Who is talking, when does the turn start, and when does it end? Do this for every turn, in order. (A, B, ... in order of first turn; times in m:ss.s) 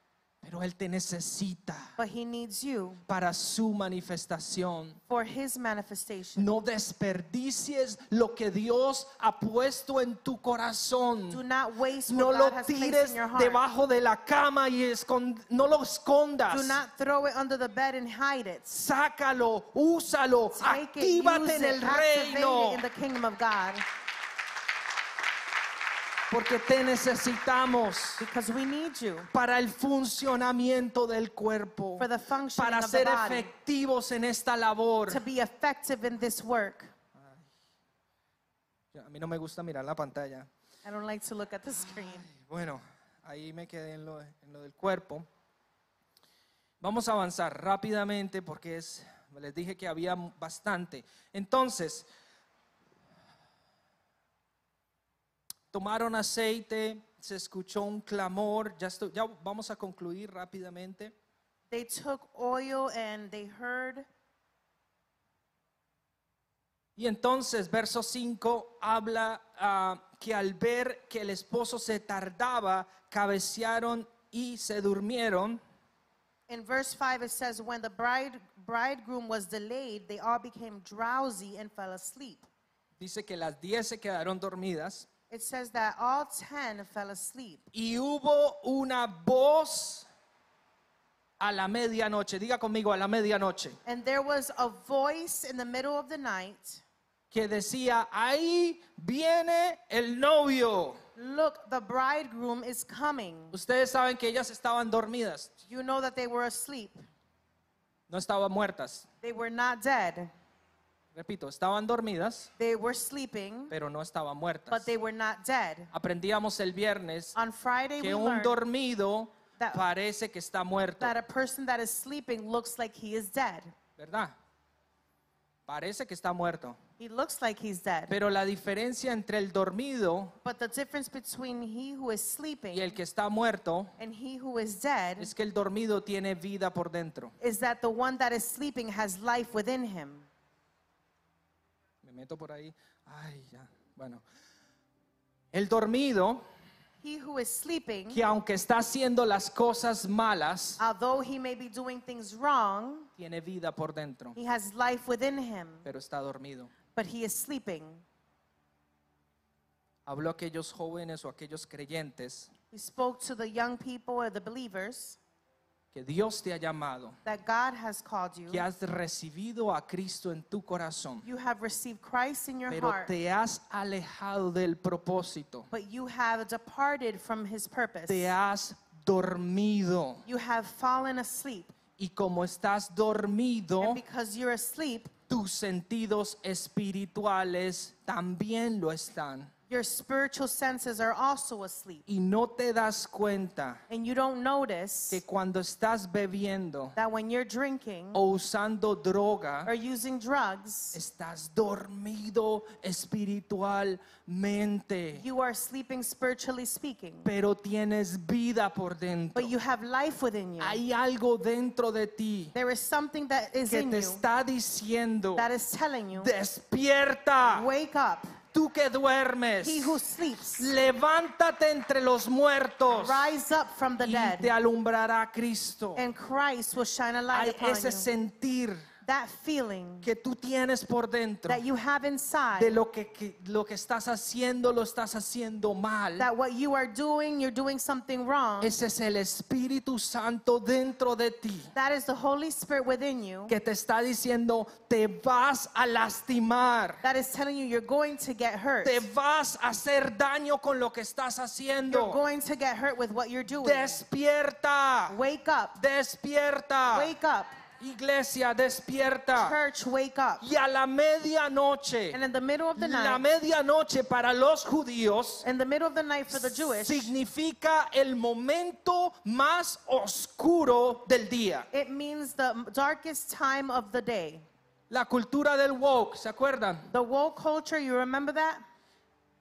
0:00.4-0:01.9 A
0:02.0-0:03.0 B
0:03.1-0:05.0 A
0:05.1-0:06.5 B
0:06.4-0:11.4 A
0:11.3-0:13.6 B
0:12.1-0:16.8 A
0:16.5-0:18.8 B
0:18.7-0:22.8 A
0:20.5-0:23.8 B
0:26.3-0:28.2 A
0:28.2-0:29.3 B
0:29.3-0:35.2 A
0:32.0-0:33.5 B
0:35.1-0:36.9 B
0:37.2-0:37.5 A
0:38.9-0:40.5 A
0:40.8-0:42.3 B
0:41.9-0:45.2 A
0:46.8-0:52.1 A
0:55.7-1:01.1 A
1:01.7-1:04.0 B
1:07.0-1:15.6 A
1:16.5-1:22.5 B
1:23.0-1:25.1 A
1:25.3-1:27.7 B
1:27.7-1:30.1 A
1:31.4-1:33.8 A
1:33.8-1:36.8 B
1:37.3-1:41.0 A
1:41.2-1:43.6 B
1:43.5-1:45.5 A
1:45.6-1:47.0 B
1:48.1-1:49.0 A
1:49.2-1:50.3 B
1:51.1-1:52.5 A
1:52.6-1:53.7 B
1:53.7-1:54.9 A
1:54.7-1:55.9 B
1:55.9-1:57.3 A
1:57.3-1:58.6 B
1:58.0-2:01.1 A
1:59.6-1:59.8 B
2:01.0-2:03.7 B
2:04.0-2:04.3 A
2:05.7-2:06.8 A
2:07.0-2:08.2 B
2:08.1-2:10.3 A
2:10.4-2:13.0 B
2:12.7-2:14.0 A
2:14.0-2:15.3 B
2:15.2-2:17.3 A
2:17.4-2:20.3 B
2:22.0-2:24.2 A
2:25.5-2:26.4 A
2:27.0-2:28.2 B
2:28.1-2:30.8 A
2:30.8-2:33.1 B
2:33.2-2:34.4 A
2:34.4-2:35.9 B
2:35.8-2:36.7 A
2:36.9-2:38.0 B
2:40.0-2:42.5 A
2:42.7-2:45.2 B
2:45.9-2:47.2 A
2:47.2-2:48.6 B
2:48.5-2:51.2 A
2:51.2-2:53.1 B
2:52.7-2:55.7 A
2:55.7-2:58.3 B
2:58.1-3:00.2 A
3:00.2-3:01.7 B
3:02.0-3:04.0 A
3:03.8-3:05.1 B
3:05.3-3:09.5 A
3:09.7-3:12.0 B
3:12.1-3:13.8 A
3:13.9-3:15.2 B
3:15.1-3:16.9 A
3:17.0-3:18.2 B
3:18.1-3:19.7 A
3:19.6-3:21.0 B
3:20.9-3:25.2 A
3:25.1-3:27.3 B
3:27.2-3:29.5 A
3:29.3-3:30.8 B
3:30.6-3:32.5 A
3:32.5-3:34.2 B
3:33.7-3:35.5 A
3:35.4-3:36.3 B
3:36.1-3:37.7 A
3:37.4-3:38.4 B
3:38.5-3:40.0 A
3:39.6-3:40.7 B
3:40.6-3:43.3 A
3:42.9-3:44.5 B
3:44.0-3:46.0 A
3:46.0-3:48.1 B
3:47.3-3:48.8 A
3:49.0-3:50.1 B
3:50.0-3:51.6 A
3:51.5-3:52.8 B
3:52.6-3:56.3 A
3:56.2-3:58.7 B
3:58.6-4:01.7 A
4:01.7-4:03.5 B
4:03.5-4:07.0 A
4:07.0-4:09.0 B
4:08.8-4:12.2 A
4:11.9-4:14.0 B
4:13.5-4:15.2 A
4:15.1-4:15.8 B
4:15.8-4:17.1 A
4:16.9-4:17.6 B
4:17.8-4:19.6 A
4:19.4-4:20.5 B
4:20.4-4:22.2 A
4:22.1-4:23.2 B
4:22.8-4:25.4 A
4:25.4-4:27.1 B
4:26.3-4:31.7 A
4:31.7-4:34.5 B
4:34.9-4:36.9 A
4:36.9-4:38.6 B